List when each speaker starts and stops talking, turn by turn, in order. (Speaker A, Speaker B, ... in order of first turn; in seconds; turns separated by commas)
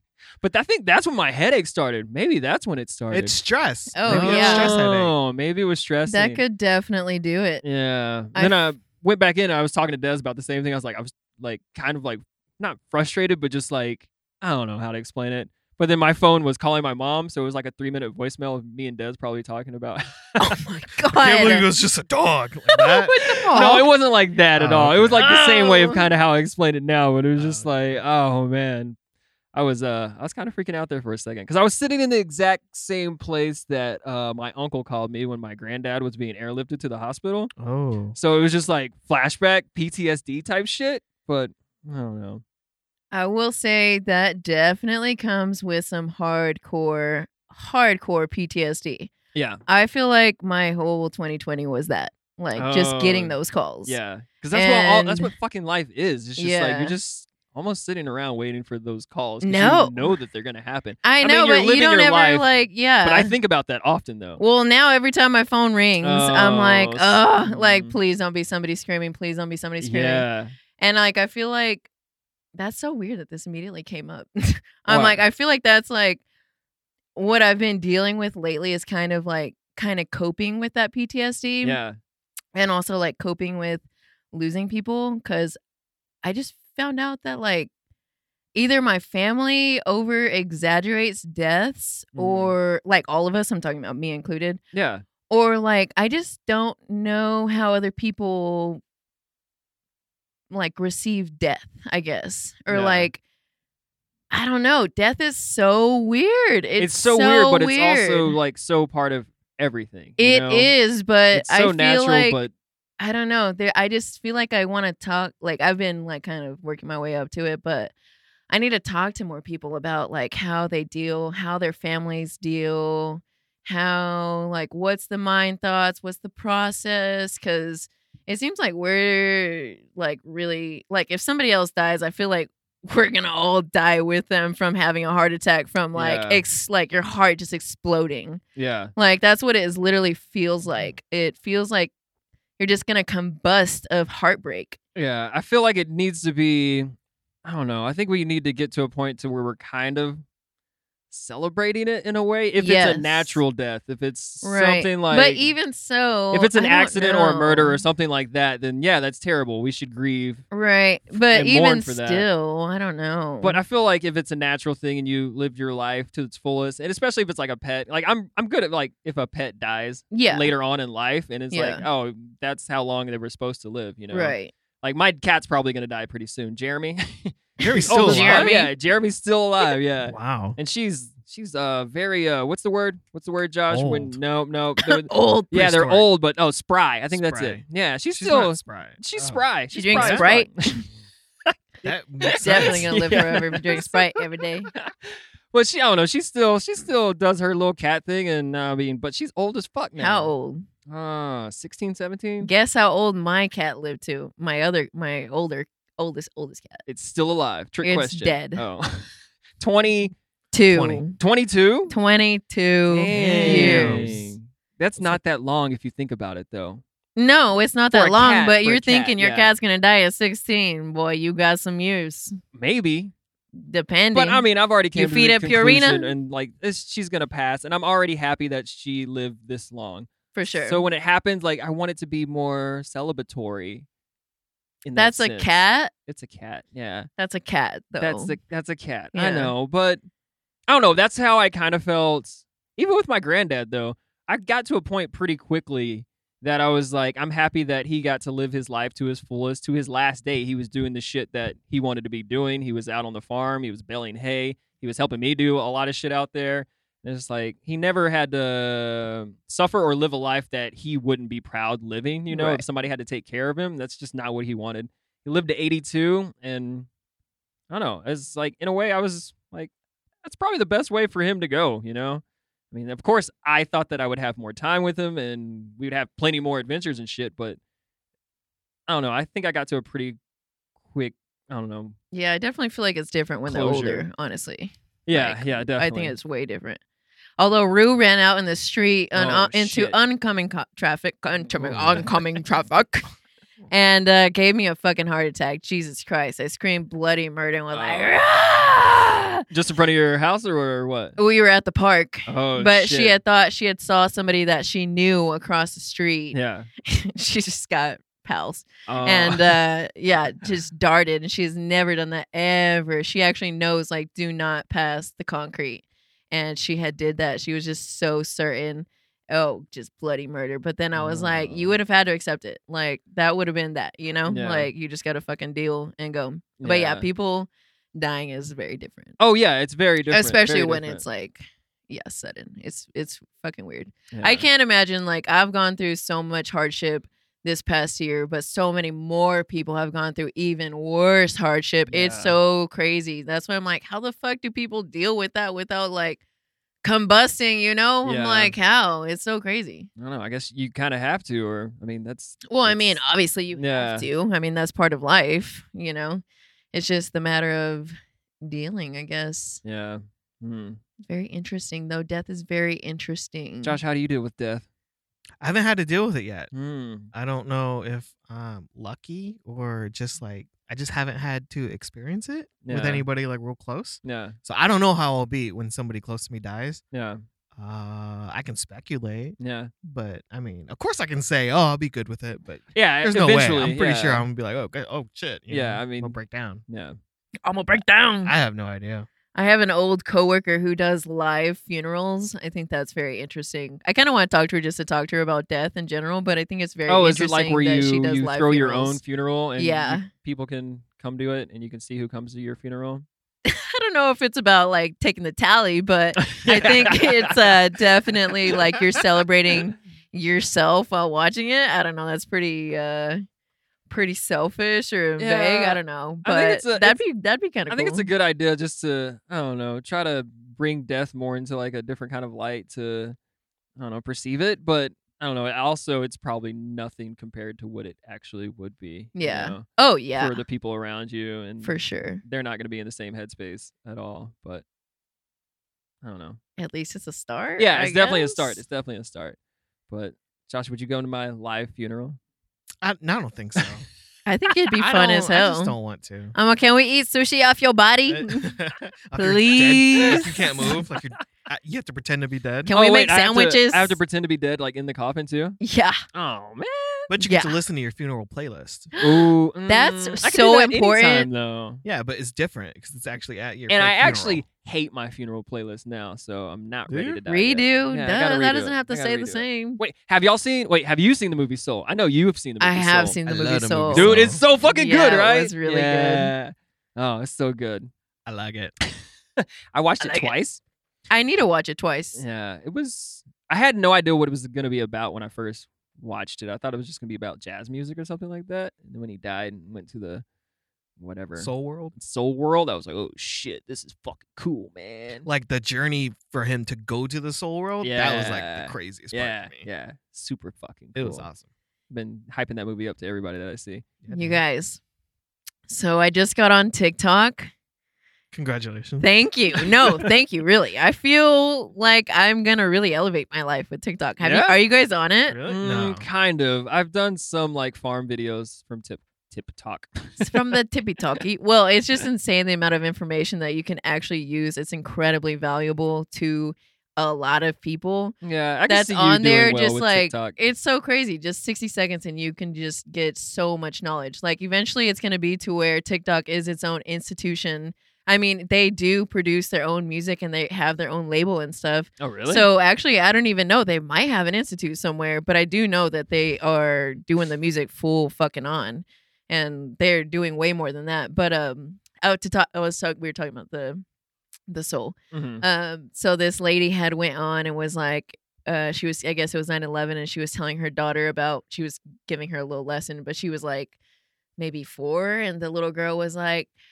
Speaker A: 0.4-3.4, Speaker B: 3.1-5.1, Speaker C: 3.9-4.7, Speaker A: 4.1-6.4, Speaker C: 6.1-7.6, Speaker A: 7.6-20.2, Speaker C: 20.4-21.7, Speaker B: 21.1-23.9, Speaker C: 22.8-23.9, Speaker A: 23.5-29.0, Speaker B: 24.6-25.2, Speaker C: 25.2-26.1, Speaker B: 27.4-27.7, Speaker A: 29.5-37.5, Speaker B: 37.6-38.2, Speaker A: 38.1-42.4, Speaker C: 43.1-49.1, Speaker A: 49.3-49.6, Speaker C: 49.7-54.0, Speaker A: 52.5-62.5, Speaker C: 54.5-55.3, Speaker C: 56.4-57.0, Speaker C: 59.4-60.1, Speaker C: 61.0-63.3, Speaker A: 63.0-64.4, Speaker C: 64.4-70.3, Speaker A: 66.0-68.0, Speaker A: 69.8-70.5, Speaker C: 70.8-71.9, Speaker C: 72.5-76.2, Speaker A: 74.9-75.2, Speaker C: 77.2-81.8, Speaker A: 81.6-82.0, Speaker C: 82.5-85.6, Speaker C: 86.2-87.7, Speaker C: 88.5-94.6, Speaker A: 92.2-92.6, Speaker A: 94.7-95.0, Speaker C: 95.3-98.8, Speaker C: 100.5-103.2, Speaker A: 102.7-103.1, Speaker C: 104.3-108.3, Speaker A: 106.8-110.7, Speaker C: 110.2-112.4, Speaker A: 111.3-112.5, Speaker C: 113.0-117.9, Speaker C: 118.5-138.4, Speaker A: 135.9-136.4, Speaker A: 138.6-138.9, Speaker C: 139.0-141.9, Speaker C: 142.6-144.8, Speaker A: 145.0-146.9, Speaker A: 147.4-150.2, Speaker A: 151.1-155.5, Speaker C: 152.6-153.4, Speaker C: 154.4-157.8, Speaker A: 156.3-160.4, Speaker C: 160.5-163.6, Speaker A: 161.3-162.2, Speaker A: 163.4-190.8, Speaker C: 170.1-170.5, Speaker C: 171.5-171.8, Speaker C: 174.1-174.5, Speaker B: 177.6-178.5, Speaker C: 177.6-178.7, Speaker B: 180.1-180.6, Speaker B: 183.7-184.2, Speaker C: 184.8-185.7, Speaker B: 185.5-186.0, Speaker B: 187.1-189.4, Speaker C: 189.7-190.8, Speaker B: 189.9-190.2, Speaker B: 191.8-193.4, Speaker A: 192.3-194.2, Speaker C: 192.4-194.7, Speaker A: 194.7-200.3, Speaker C: 200.0-200.7, Speaker A: 200.9-202.5, Speaker C: 202.4-206.8, Speaker A: 206.9-210.2, Speaker C: 207.8-208.6, Speaker C: 210.5-211.2, Speaker B: 210.7-211.0, Speaker A: 211.2-211.9, Speaker C: 211.9-214.1, Speaker A: 212.9-216.8, Speaker B: 213.1-214.3, Speaker C: 217.2-222.3, Speaker A: 217.9-219.5, Speaker A: 222.6-223.1, Speaker C: 223.6-226.1, Speaker A: 224.1-233.9, Speaker C: 230.3-230.8, Speaker A: 234.8-237.1, Speaker C: 234.9-235.9, Speaker C: 237.2-238.3, Speaker A: 238.0-240.0, Speaker C: 239.1-239.5, Speaker A: 240.7-266.9, Speaker C: 262.3-262.6, Speaker A: 267.7-269.7, Speaker A: 270.2-277.6, Speaker A: 278.9-280.2, Speaker A: 280.9-282.0, Speaker C: 282.1-286.8, Speaker A: 283.5-284.1, Speaker A: 285.1-286.1, Speaker C: 287.4-293.1, Speaker A: 289.1-290.0, Speaker B: 291.6-292.0, Speaker A: 291.7-292.1, Speaker C: 293.7-299.4, Speaker A: 297.7-298.2, Speaker A: 299.5-301.2, Speaker C: 301.2-329.2, Speaker A: 302.3-303.1, Speaker A: 306.3-306.7, Speaker A: 308.9-309.6, Speaker A: 320.9-321.8, Speaker A: 324.3-324.7, Speaker A: 326.6-327.1, Speaker A: 329.2-331.0, Speaker C: 330.1-346.2, Speaker A: 334.1-334.5, Speaker A: 341.9-342.4, Speaker C: 346.8-349.9, Speaker A: 348.0-348.6, Speaker A: 350.0-353.0, Speaker C: 352.5-359.6, Speaker A: 353.5-354.1, Speaker A: 359.6-360.8, Speaker C: 361.0-363.8, Speaker A: 363.6-364.7, Speaker B: 365.4-366.5, Speaker A: 366.5-367.1, Speaker B: 367.1-376.8, Speaker A: 372.6-373.1, Speaker A: 374.0-374.4, Speaker A: 376.9-377.2, Speaker B: 377.6-386.6, Speaker A: 379.4-379.7, Speaker A: 382.7-384.3, Speaker A: 385.5-386.2, Speaker A: 386.7-387.0, Speaker C: 387.4-388.3, Speaker B: 388.2-389.1, Speaker C: 389.4-399.0, Speaker A: 396.9-403.1, Speaker C: 399.6-400.1, Speaker C: 403.5-413.2, Speaker A: 406.2-407.6, Speaker A: 408.5-408.8, Speaker C: 413.9-418.1, Speaker A: 415.2-417.0, Speaker A: 417.7-423.2, Speaker A: 423.8-434.6, Speaker C: 429.1-430.4, Speaker C: 431.6-432.2, Speaker A: 436.0-436.4, Speaker C: 436.6-438.6, Speaker A: 437.6-439.4, Speaker A: 439.9-442.2, Speaker B: 442.8-443.9, Speaker C: 444.3-445.8, Speaker B: 444.8-446.3, Speaker C: 446.3-448.6, Speaker B: 448.1-452.7, Speaker C: 449.2-450.8, Speaker A: 450.1-450.9, Speaker C: 452.7-454.0, Speaker A: 452.7-455.6, Speaker C: 455.6-456.0, Speaker A: 456.1-457.1, Speaker B: 457.1-458.9, Speaker C: 457.2-457.6, Speaker C: 458.9-461.3, Speaker A: 459.0-461.8, Speaker B: 461.8-464.4, Speaker A: 463.7-473.2, Speaker B: 466.9-467.2, Speaker C: 467.3-469.8, Speaker C: 472.6-476.3, Speaker B: 473.3-474.4, Speaker A: 473.9-477.9, Speaker B: 478.3-478.7, Speaker A: 479.4-480.6, Speaker C: 480.0-480.3, Speaker C: 481.1-482.2, Speaker A: 482.1-490.2, Speaker A: 491.0-495.3, Speaker B: 491.4-491.9, Speaker B: 495.2-499.7, Speaker A: 497.8-501.3, Speaker B: 501.0-501.5, Speaker A: 501.9-503.9, Speaker B: 504.0-504.4, Speaker C: 504.1-504.8, Speaker C: 505.7-507.5, Speaker B: 508.3-509.1, Speaker C: 509.0-515.4, Speaker A: 514.2-514.6, Speaker B: 515.3-516.1, Speaker A: 515.5-520.4, Speaker C: 520.2-528.2, Speaker A: 528.2-530.4, Speaker C: 528.7-553.8, Speaker A: 542.0-542.5, Speaker C: 554.5-563.8, Speaker A: 555.1-555.4, Speaker C: 564.4-566.5